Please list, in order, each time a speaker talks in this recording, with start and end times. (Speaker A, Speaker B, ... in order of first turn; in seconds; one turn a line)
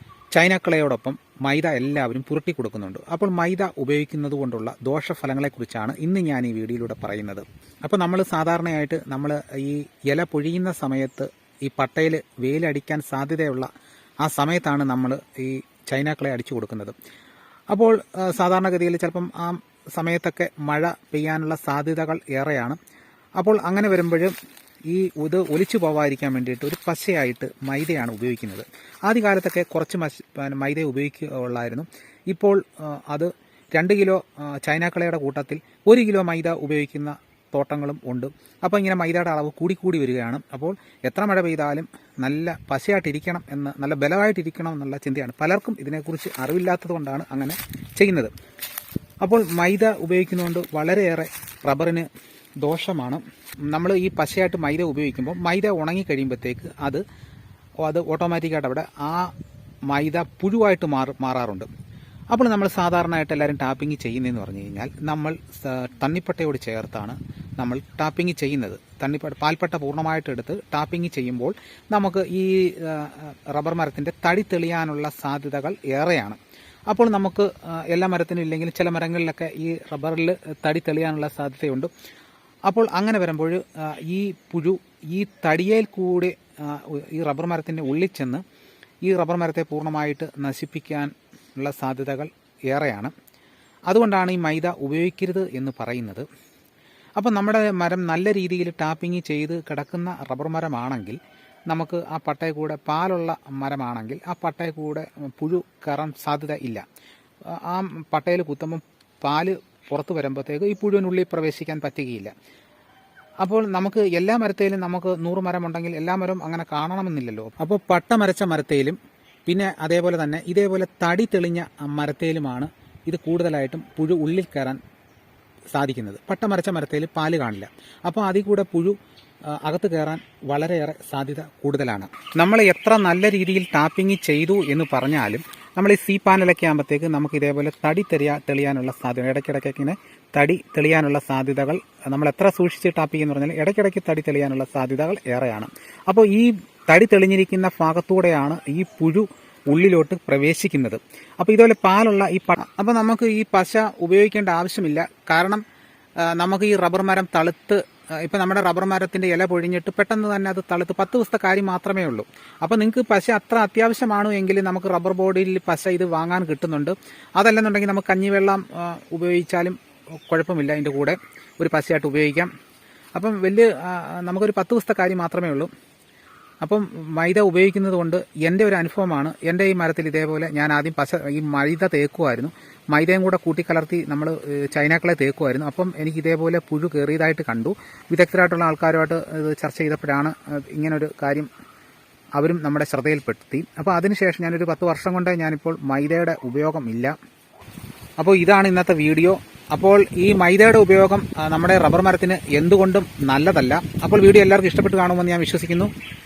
Speaker A: 0.3-13.7
Speaker A: 14.2-16.9
Speaker A: 17.7-22.8
Speaker A: 23.4-24.3
Speaker A: 24.9-48.3
Speaker A: 49.2-52.1
Speaker A: 52.6-57.0
Speaker A: 57.8-59.3
Speaker A: 59.9-61.7
Speaker A: 62.3-76.4
Speaker A: 76.9-81.9
Speaker A: 82.7-88.4
Speaker A: 89.0-93.1
Speaker A: 93.9-96.2
Speaker A: 97.2-106.8
Speaker A: 107.5-112.3
Speaker A: 113.4-124.8
Speaker A: 125.7-129.0
Speaker A: 129.6-155.6
Speaker A: 156.3-169.8
Speaker A: 170.3-172.5
Speaker A: 173.1-175.7
Speaker A: 176.6-191.5
Speaker A: 192.4-197.1
Speaker A: 198.2-205.9